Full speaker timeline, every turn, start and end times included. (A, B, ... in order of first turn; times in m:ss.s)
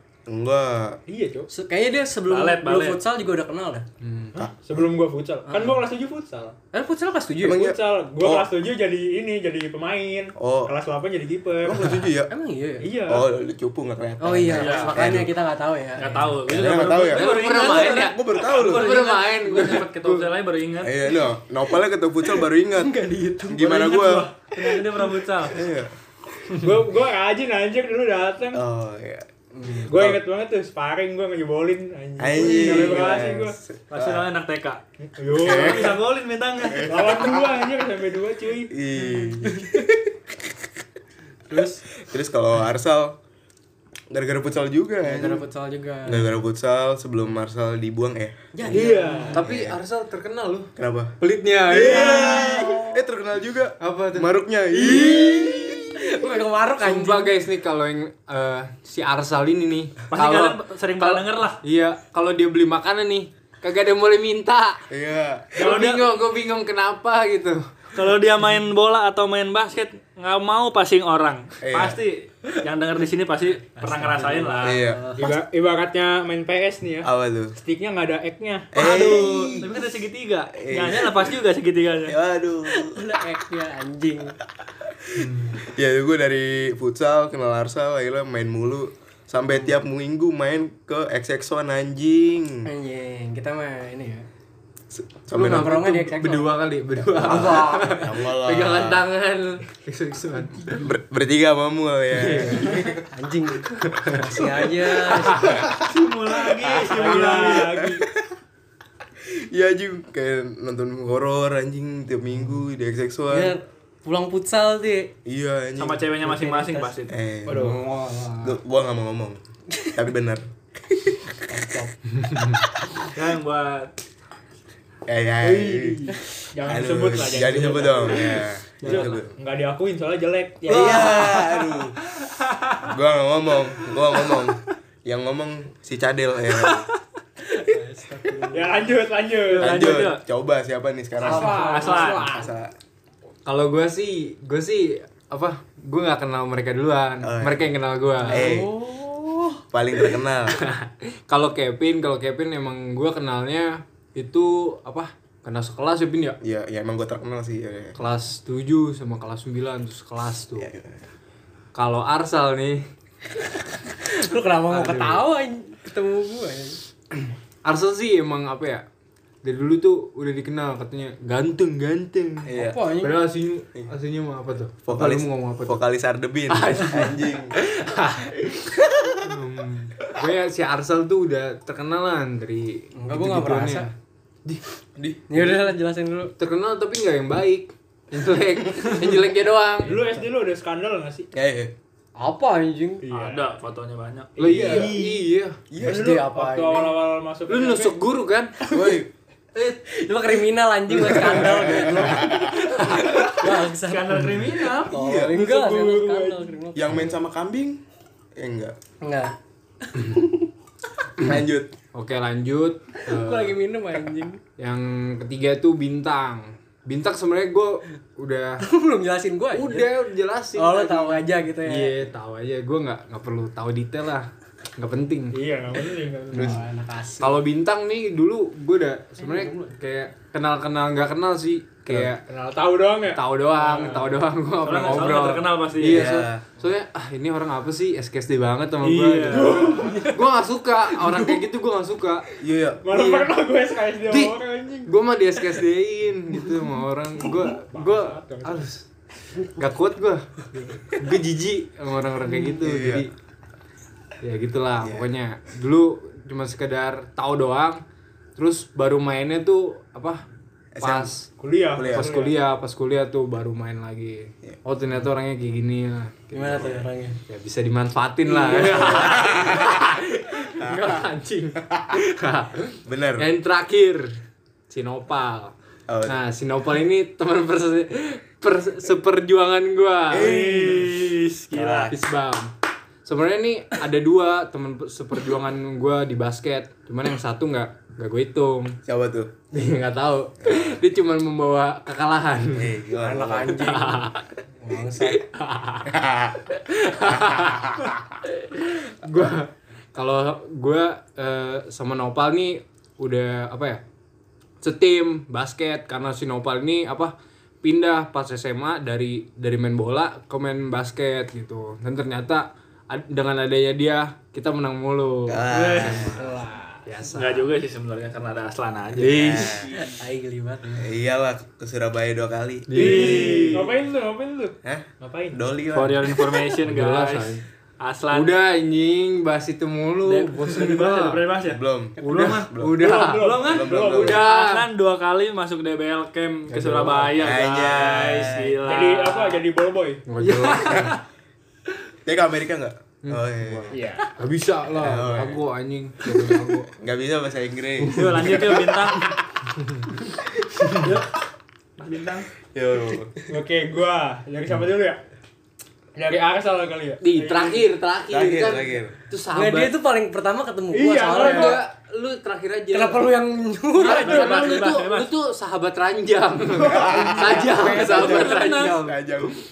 0:00.3-0:01.0 A
0:01.1-0:01.5 B
0:01.5-0:03.9 C
0:02.3-0:03.0 D
0:04.0-0:04.4 E
0:04.4-0:06.6 B
0:05.5-0:05.8 C
0:06.7-0:07.6 C
0:07.4-0:08.5 A
0:07.5-0:12.0 B
0:10.4-0:10.7 A
0:11.6-0:12.3 A
0:12.3-0:13.0 C
0:12.8-0:13.2 B
0:13.1-0:15.4 A
0:14.2-0:16.4 C
0:14.5-0:15.0 D
0:16.0-0:21.0 D
0:16.5-0:19.0 A
0:17.1-0:20.3 E
0:17.3-0:18.0 C
0:20.8-0:24.3 A
0:22.8-0:25.2 C
0:23.8-0:25.6 D
0:25.4-0:25.9 A
0:26.5-0:28.6 B
0:28.5-0:29.3 A
0:29.5-0:29.9 C
0:29.9-0:30.2 A
0:29.9-0:33.6 B
0:32.2-0:34.3 A
0:32.4-0:33.1 D
0:33.9-0:34.8 D
0:35.2-0:36.0 B
0:35.4-0:37.0 D
0:35.4-0:36.0 A
0:36.8-0:39.9 B
0:36.8-0:37.6 A
0:38.7-0:40.7 A
0:41.5-0:41.8 C
0:42.0-0:43.2 A
0:44.1-0:45.4 A
0:45.0-0:46.3 C
0:46.1-0:48.8 A
0:48.5-0:49.4 C
0:48.7-0:49.4 B
0:49.3-0:52.8 E
0:49.4-0:49.8 A
0:50.8-0:56.1 A
0:51.8-0:52.8 C
0:53.8-0:54.4 E
0:54.7-0:57.4 C
0:56.8-1:04.8 E
1:00.1-1:01.6 D
1:04.9-1:05.6 A
1:05.6-1:07.6 E
1:05.6-1:06.0 D
1:05.7-1:06.0 B
1:07.9-1:14.8 D
1:11.6-1:12.0 A
1:13.8-1:15.4 C
1:14.6-1:15.1 A
1:15.2-1:19.2 B
1:17.0-1:17.5 A
1:18.7-1:19.8 A
1:18.8-1:22.2 D
1:20.6-1:21.4 A
1:22.0-1:23.1 A
1:22.7-1:24.4 C
1:25.2-1:32.7 A
1:32.7-1:34.3 C
1:34.9-1:35.9 A
1:35.3-1:36.6 C
1:35.4-1:40.8 E
1:37.1-1:38.0 C
1:37.2-1:39.0 A
1:40.8-1:43.1 A
1:42.1-1:42.9 E
1:43.1-1:45.7 C
1:44.0-1:44.3 E
1:44.3-1:45.8 A
1:45.1-1:45.6 E
1:45.8-1:47.7 D
1:46.5-1:48.3 A
1:46.8-1:48.0 B
1:49.2-1:53.6 A
1:53.3-1:55.1 C
1:55.2-1:56.1 A
1:55.8-1:57.2 D
1:56.2-1:57.0 C
1:57.1-1:57.8 A
1:57.5-1:58.5 E
1:57.5-1:57.8 B
1:58.4-1:59.4 A
1:59.9-2:01.3 A
2:01.6-2:01.8 B
2:02.1-2:02.6 E
2:03.1-2:03.9 D
2:05.1-2:09.3 A
2:05.5-2:11.5 B
2:08.8-2:09.1 D
2:10.7-2:12.0 A
2:10.7-2:11.6 D
2:12.2-2:12.8 D
2:12.8-2:16.9 A
2:17.4-2:19.0 C
2:18.5-2:20.1 B
2:19.5-2:20.2 D
2:19.6-2:22.7 A
2:21.2-2:22.3 C
2:21.2-2:22.5 B
2:21.4-2:22.2 D
2:23.5-2:28.5 E
2:27.2-2:27.7 A
2:28.2-2:29.6 C
2:28.3-2:28.7 A
2:29.7-2:30.6 A
2:30.6-2:36.4 E
2:36.4-2:38.0 A
2:38.0-2:40.7 E
2:40.6-2:41.0 A
2:41.8-2:42.9 E
2:44.1-2:46.8 C
2:44.7-2:45.3 E
2:47.6-2:48.8 E
2:49.4-2:55.8 E
2:52.4-2:52.8 A
2:52.5-2:53.3 C
2:54.8-2:57.6 A
2:56.5-3:03.9 E
2:58.9-2:59.2 A
3:02.9-3:03.9 C
3:05.0-3:05.2 A
3:05.3-3:06.3 C
3:05.4-3:05.7 E
3:06.4-3:10.1 E
3:09.8-3:11.3 B
3:11.3-3:11.7 A
3:12.2-3:13.0 C
3:13.0-3:13.4 B
3:13.1-3:14.7 D
3:14.4-3:15.2 B
3:14.4-3:15.6 E
3:15.7-3:16.2 A
3:15.8-3:16.9 C
3:15.8-3:18.0 B
3:17.5-3:18.5 E
3:18.6-3:19.0 C
3:18.7-3:19.1 A
3:19.6-3:24.2 C
3:20.9-3:22.5 A
3:22.7-3:23.2 E
3:23.8-3:24.9 D
3:24.8-3:27.1 C
3:24.9-3:25.4 A
3:25.2-3:26.5 B
3:26.8-3:27.8 A
3:28.4-3:28.8 A
3:29.0-3:30.4 C
3:31.2-3:31.8 A
3:31.9-3:33.6 E
3:33.1-3:34.4 C
3:34.6-3:38.7 E
3:38.6-3:39.9 C
3:39.5-3:45.4 E
3:40.5-3:42.1 C
3:45.3-3:46.6 B
3:46.3-3:46.6 E
3:46.3-3:47.4 C
3:47.2-3:52.2 E
3:49.2-3:49.7 C
3:52.2-3:54.1 B
3:53.1-4:02.3 E
3:54.6-3:56.1 D
3:55.8-3:56.4 A
3:58.8-4:00.2 B
3:58.9-3:59.8 D
3:59.6-4:00.2 C
4:01.0-4:01.4 C
4:02.4-4:02.8 A
4:02.8-4:04.9 B
4:02.9-4:03.3 E
4:04.1-4:08.9 E
4:07.5-4:08.6 B
4:09.5-4:10.3 E
4:10.9-4:13.1 E
4:12.4-4:13.1 A
4:14.2-4:17.8 E
4:14.8-4:15.1 A
4:18.4-4:20.2 E
4:20.8-4:21.1 A
4:20.8-4:21.3 E
4:21.4-4:22.4 B
4:21.8-4:22.1 A
4:21.9-4:26.7 E
4:26.3-4:27.2 C
4:26.3-4:26.8 A
4:27.3-4:34.1 E
4:28.2-4:29.3 C
4:28.9-4:29.8 A
4:30.6-4:31.0 A
4:31.7-4:32.0 A
4:32.9-4:33.3 A
4:34.7-4:35.5 E
4:35.9-4:36.2 A
4:36.1-4:40.4 E
4:40.1-4:42.0 A
4:40.2-4:41.9 D
4:41.9-4:42.5 E
4:43.0-4:48.8 E
4:48.9-4:49.3 A
4:49.5-4:52.8 E
4:50.4-4:50.8 A
4:52.5-4:53.8 A
4:52.9-4:55.3 C
4:53.6-4:54.2 E
4:54.8-4:55.9 E
4:55.9-4:56.4 A
4:56.5-5:03.8 E
4:57.1-4:58.0 A
5:04.6-5:16.3 E
5:15.3-5:16.2 A
5:15.5-5:15.9 D
5:15.5-5:16.8 B
5:16.8-5:17.5 E
5:17.1-5:19.6 D
5:19.0-5:19.7 E
5:19.0-5:19.8 A
5:19.7-5:20.9 C
5:20.8-5:23.2 A
5:22.7-5:23.6 E
5:22.8-5:25.4 B
5:22.8-5:23.7 D
5:24.6-5:26.2 A
5:25.7-5:28.4 D
5:26.6-5:27.4 E
5:28.1-5:31.2 E
5:30.1-5:39.4 D
5:31.5-5:32.8 A
5:32.0-5:34.7 E
5:32.8-5:34.1 B
5:33.4-5:34.2 A
5:36.5-5:37.1 E
5:36.8-5:38.6 A
5:38.6-5:40.0 B
5:40.1-5:41.0 E
5:40.5-5:40.9 D
5:40.6-5:40.9 A
5:42.0-5:43.7 A
5:43.0-5:46.7 E
5:43.7-5:44.1 B
5:44.8-5:45.4 A
5:46.7-5:48.6 A
5:47.9-5:49.1 D
5:50.8-5:51.1 D
5:51.8-5:52.3 D
5:52.5-5:53.2 A
5:53.3-5:55.0 B
5:56.0-5:57.7 B
5:57.0-5:59.8 E
5:58.1-5:59.0 A
5:59.3-6:01.6 C
6:00.7-6:01.6 B
6:01.1-6:03.1 E
6:02.7-6:04.6 C
6:03.8-6:08.9 E
6:03.8-6:05.1 D
6:06.6-6:07.6 B
6:06.6-6:09.4 A
6:06.7-6:09.0 C
6:07.9-6:08.8 D